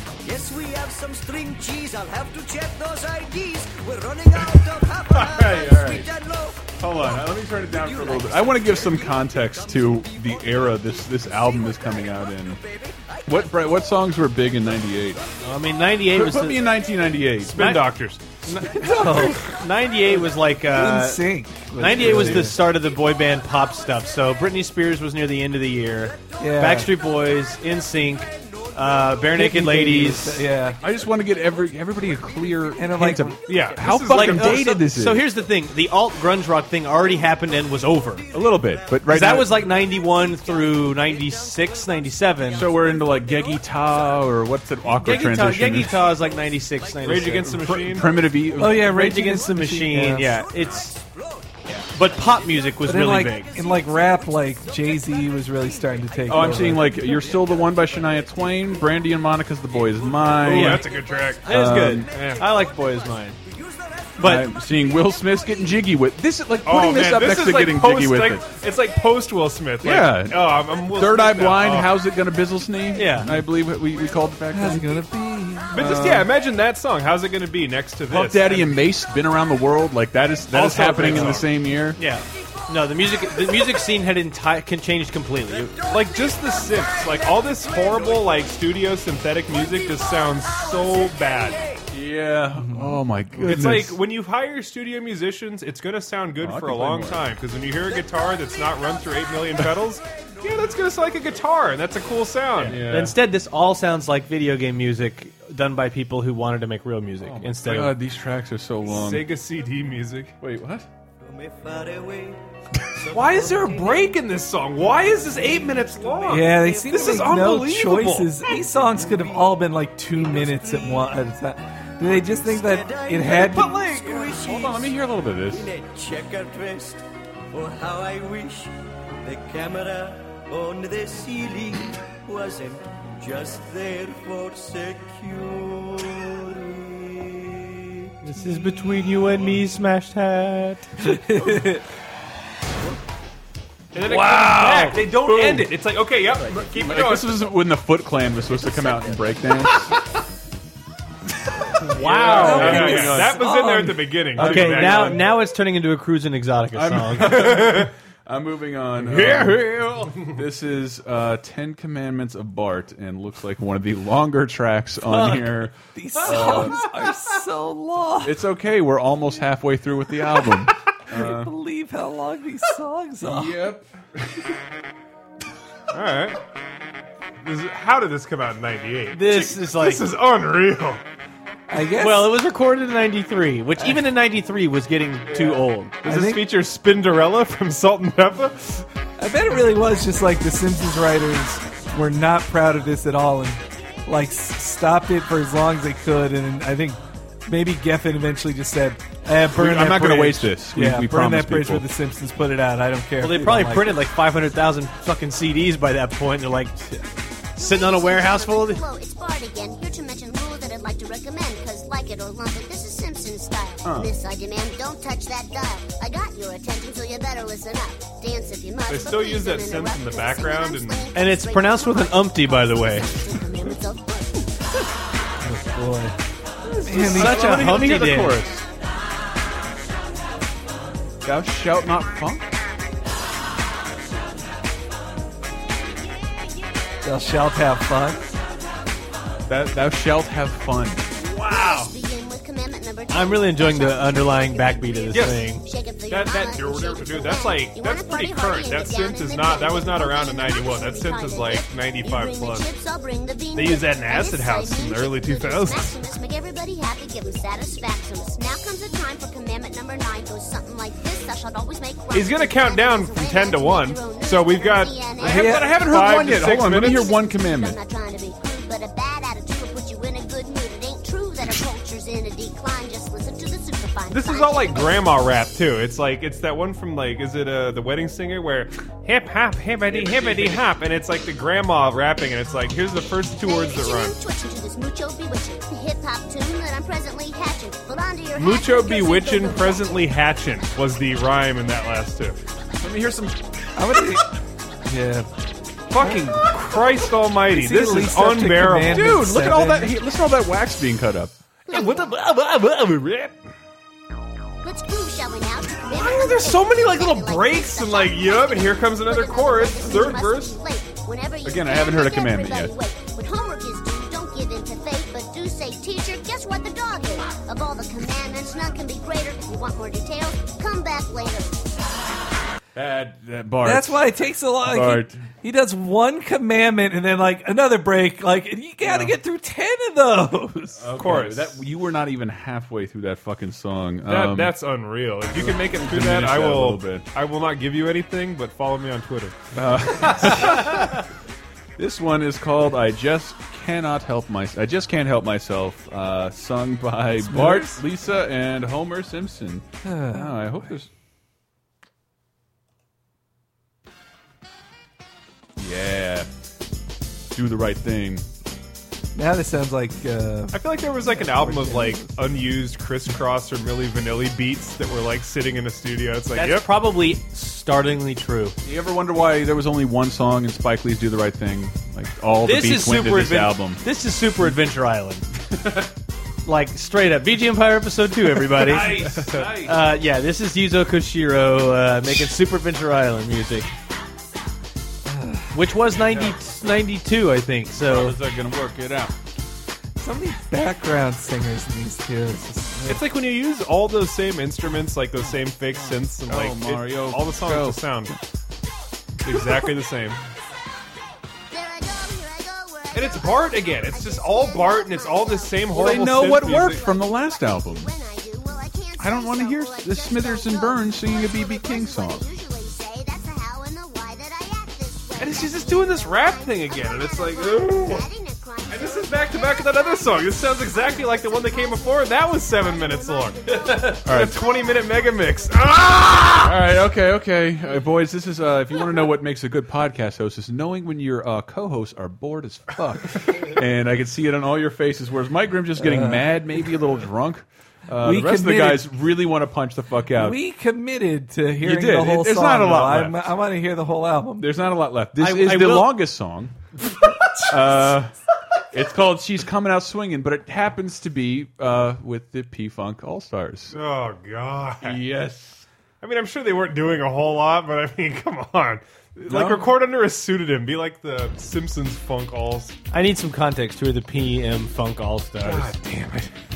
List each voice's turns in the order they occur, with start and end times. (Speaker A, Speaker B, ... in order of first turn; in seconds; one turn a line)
Speaker A: 0.2-14.0
Speaker B: 5.1-6.1
Speaker B: 6.8-12.6
Speaker B: 13.3-15.2
Speaker C: 15.4-16.8
Speaker B: 16.1-17.8
Speaker D: 17.4-18.2
Speaker C: 17.5-30.5
Speaker E: 18.7-19.6
Speaker A: 19.1-19.6
Speaker E: 20.5-22.6
Speaker B: 21.9-22.5
Speaker A: 22.9-23.8
Speaker A: 26.1-26.5
Speaker E: 26.4-26.9
Speaker A: 28.1-29.4
Speaker E: 29.3-30.8
Speaker A: 30.6-33.9
Speaker B: 30.8-35.3
Speaker E: 32.8-33.4
Speaker D: 33.5-34.8
Speaker C: 33.9-38.3
Speaker A: 37.0-44.2
Speaker B: 38.3-39.7
Speaker C: 39.0-42.7
Speaker B: 42.5-46.1
Speaker C: 45.0-47.8
Speaker A: 46.1-47.1
Speaker D: 47.0-48.2
Speaker B: 47.4-49.4
Speaker E: 48.5-50.4
Speaker C: 48.7-51.0
Speaker A: 50.1-66.1
Speaker C: 51.9-53.5
Speaker E: 52.8-57.0
Speaker B: 56.3-60.9
Speaker D: 60.4-61.5
Speaker C: 60.4-60.9
Speaker C: 61.4-63.4
Speaker B: 61.5-62.1
Speaker D: 62.1-62.5
Speaker C: 64.2-64.5
Speaker B: 64.2-68.5
Speaker D: 66.6-71.9
Speaker A: 68.4-69.1
Speaker B: 69.8-75.0
Speaker C: 72.9-73.3
Speaker A: 73.9-74.3
Speaker E: 74.5-75.9
Speaker D: 75.7-78.8
Speaker B: 75.7-76.3
Speaker B: 78.1-82.0
Speaker C: 80.5-85.8
Speaker D: 80.9-81.5
Speaker A: 83.2-83.6
Speaker A: 85.5-88.8
Speaker D: 85.9-91.6
Speaker A: 89.5-91.8
Speaker B: 91.9-94.0
Speaker E: 92.6-93.0
Speaker D: 93.3-102.8
Speaker B: 96.4-97.3
Speaker B: 102.6-103.2
Speaker C: 102.7-107.9
Speaker B: 107.2-109.3
Speaker D: 108.9-110.3
Speaker B: 110.4-110.9
Speaker A: 111.2-114.2
Speaker D: 113.1-118.4
Speaker A: 115.0-117.3
Speaker E: 116.3-123.9
Speaker A: 118.5-121.2
Speaker A: 122.0-128.7
Speaker D: 123.3-124.3
Speaker B: 124.3-125.7
Speaker A: 129.2-137.9
Speaker C: 138.2-140.9
Speaker E: 141.1-141.8
Speaker D: 143.9-147.4
Speaker B: 144.0-145.7
Speaker C: 144.4-145.3
Speaker A: 146.4-146.8
Speaker B: 146.6-149.9
Speaker A: 148.3-149.7
Speaker B: 151.8-153.7
Speaker D: 151.8-155.3
Speaker C: 152.2-153.1
Speaker E: 152.4-154.2
Speaker B: 154.3-155.3
Speaker C: 154.3-157.6
Speaker B: 156.7-166.9
Speaker D: 157.3-157.9
Speaker D: 159.1-160.3
Speaker C: 165.1-165.5
Speaker E: 165.9-168.4
Speaker B: 168.2-171.5
Speaker E: 171.1-173.6
Speaker B: 173.2-173.9
Speaker D: 175.9-176.4
Speaker D: 177.4-181.0
Speaker C: 179.1-180.1
Speaker E: 181.7-182.4
Speaker C: 182.0-185.9
Speaker E: 186.0-186.5
Speaker D: 186.0-188.8
Speaker E: 189.2-204.0
Speaker B: 199.5-201.8
Speaker C: 203.2-206.8
Speaker C: 207.6-208.8
Speaker F: 207.6-224.5
Speaker B: 213.8-214.1
Speaker D: 218.9-221.1
Speaker C: 221.1-223.1
Speaker E: 225.4-226.1
Speaker E: 226.8-227.6
Speaker B: 226.8-228.6
Speaker C: 226.9-228.4
Speaker B: 231.2-232.5
Speaker E: 237.0-238.3
Speaker B: 239.5-241.0
Speaker F: 241.2-275.1
Speaker D: 241.3-241.9
Speaker C: 243.1-245.6
Speaker D: 245.1-245.5
Speaker D: 246.0-252.7
Speaker D: 253.5-255.9
Speaker D: 262.1-267.1
Speaker B: 265.2-267.8
Speaker E: 265.2-265.7
Speaker D: 274.1-284.2
Speaker B: 279.9-280.6
Speaker F: 283.4-290.1
Speaker D: 288.3-292.4
Speaker B: 292.8-293.4
Speaker E: 293.8-294.2
Speaker E: 294.9-295.3
Speaker D: 295.9-299.1
Speaker E: 295.9-296.5
Speaker E: 297.5-299.9
Speaker B: 298.9-301.3
Speaker F: 301.7-302.2
Speaker D: 301.7-303.4
Speaker F: 304.6-321.6
Speaker D: 305.8-310.6
Speaker E: 309.9-310.1
Speaker B: 311.4-312.7
Speaker B: 322.7-324.1
Speaker E: 323.6-330.8
Speaker B: 324.6-325.2
Speaker B: 328.8-329.1
Speaker B: 330.8-334.6
Speaker D: 330.9-331.6
Speaker D: 334.1-339.4
Speaker B: 335.3-337.1
Speaker B: 339.5-341.0
Speaker D: 339.9-340.8
Speaker B: 341.8-350.9
Speaker E: 347.2-347.8
Speaker E: 349.8-350.5
Speaker B: 355.6-356.3
Speaker B: 357.3-358.2
Speaker E: 359.1-362.2
Speaker D: 360.5-366.7
Speaker C: 366.3-368.5
Speaker B: 368.6-373.8
Speaker C: 372.4-375.2
Speaker B: 375.5-375.9
Speaker C: 376.4-383.7
Speaker B: 378.5-379.9
Speaker D: 378.8-379.4
Speaker E: 385.1-385.6
Speaker C: 385.5-388.2
Speaker B: 386.0-386.5
Speaker B: 387.8-389.1
Speaker E: 390.0-393.0
Speaker D: 392.9-398.2
Speaker B: 395.2-398.2
Speaker D: 399.2-400.2
Speaker F: 401.5-425.8
Speaker D: 402.9-406.9
Speaker B: 405.7-407.9
Speaker B: 409.0-412.2
Speaker D: 415.2-418.1
Speaker D: 418.7-426.6
Speaker B: 424.0-424.4
Speaker B: 426.4-440.4
Speaker E: 435.8-436.3
Speaker E: 438.0-438.9
Speaker E: 440.1-444.5
Speaker B: 441.6-443.3
Speaker B: 444.4-446.6
Speaker C: 445.2-446.0
Speaker B: 447.4-448.1
Speaker B: 448.7-453.8
Speaker D: 453.7-455.0
Speaker B: 454.8-455.6
Speaker D: 456.0-462.7
Speaker B: 459.3-459.7
Speaker C: 462.9-465.7
Speaker D: 465.4-466.3